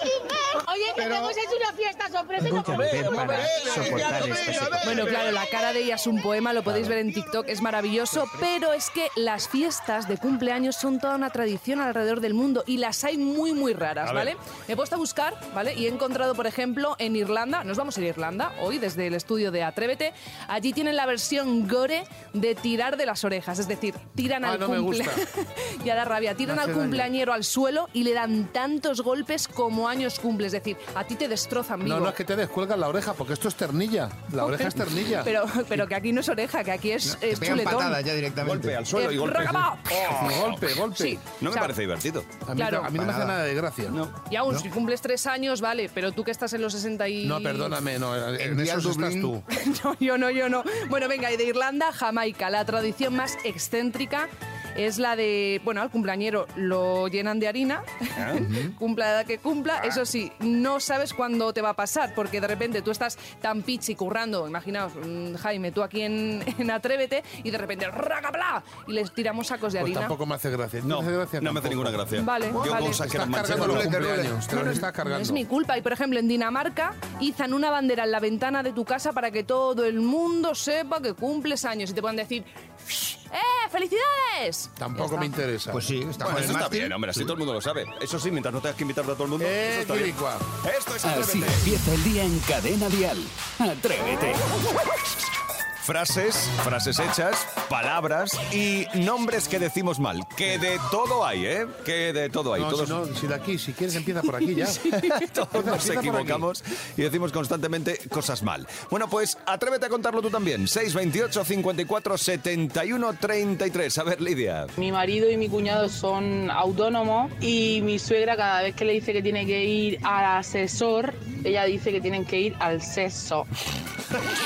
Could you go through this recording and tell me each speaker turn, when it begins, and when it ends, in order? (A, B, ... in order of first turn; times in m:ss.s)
0:00.7-0:02.3 A
0:01.0-0:01.3 B
0:02.4-0:05.1 C
0:03.0-0:05.0 B
0:04.8-0:32.2 D
0:14.0-0:14.3 E
0:24.4-0:25.2 F
0:26.4-0:27.1 F
0:31.8-0:35.3 F
0:34.4-0:38.0 D
0:37.0-0:38.8 B
0:38.4-0:40.6 E
0:38.9-0:40.2 D
0:39.9-0:41.2 F
0:40.9-0:41.7 D
0:41.4-0:42.3 E
0:42.4-0:44.0 F
0:42.5-0:43.0 D
0:43.0-0:43.4 B
0:43.9-0:44.1 E
0:44.3-0:47.8 D
0:47.2-0:49.4 F
0:48.4-0:49.3 B
0:49.5-1:10.2 D
1:09.8-1:15.4 F
1:10.8-1:14.0 E
1:12.1-1:13.0 D
1:13.4-1:14.4 B
1:14.5-1:25.4 D
1:24.8-1:26.3 F
1:25.7-1:27.3 B
1:26.2-1:31.7 E
1:29.4-1:30.4 F
1:31.0-1:34.4 G
1:35.8-1:43.0 E
1:42.5-1:46.5 F
1:44.8-1:54.7 E
1:54.8-2:03.5 A